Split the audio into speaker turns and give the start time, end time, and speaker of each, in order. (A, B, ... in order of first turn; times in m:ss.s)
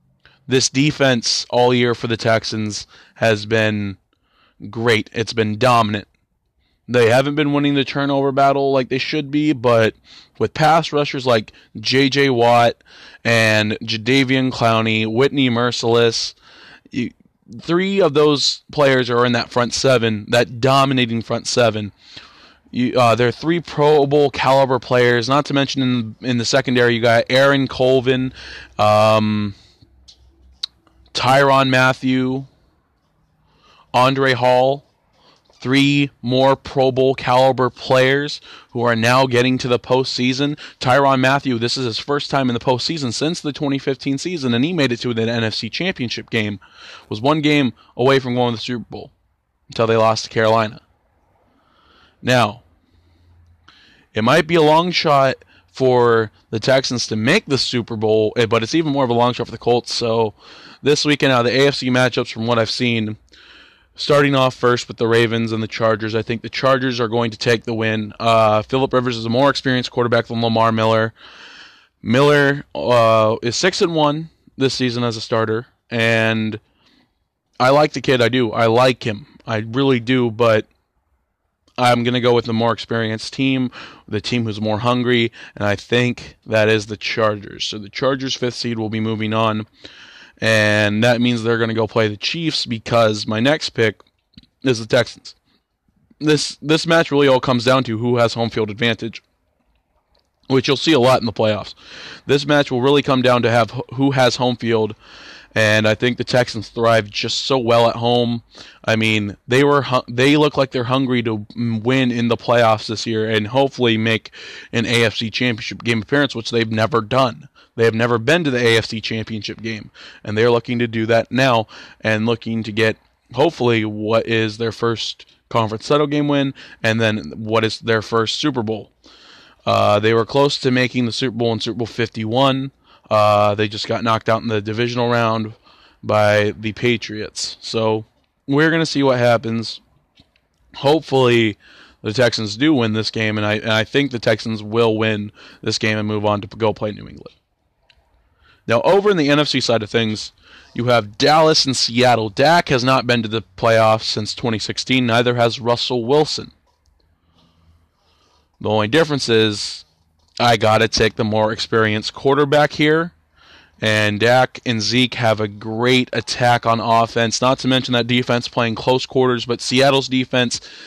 0:00.5-0:04.0 A
0:04.6-0:06.1 A
0:06.9-0:16.4 A
0:16.9-0:21.9 A
0:22.7-0:29.6 A
0:31.1-0:32.5 A
0:33.9-0:34.9 A
0:35.6-0:49.1 A
0:49.7-0:50.8 A
0:52.2-0:52.6 A
0:54.1-1:03.2 A
1:04.0-1:11.2 A
1:12.0-1:16.6 A
1:17.6-1:20.7 A
1:21.8-1:29.7 A
1:30.4-1:34.0 A
1:34.6-1:35.4 A
1:36.2-1:39.2 A
1:40.5-1:41.8 A
1:42.3-1:45.0 A
1:45.6-2:08.9 A
2:09.7-2:19.8 A
2:20.8-2:27.3 A
2:28.7-2:36.5 A
2:38.6-2:39.9 A
2:40.4-2:43.2 A
2:43.8-2:50.6 A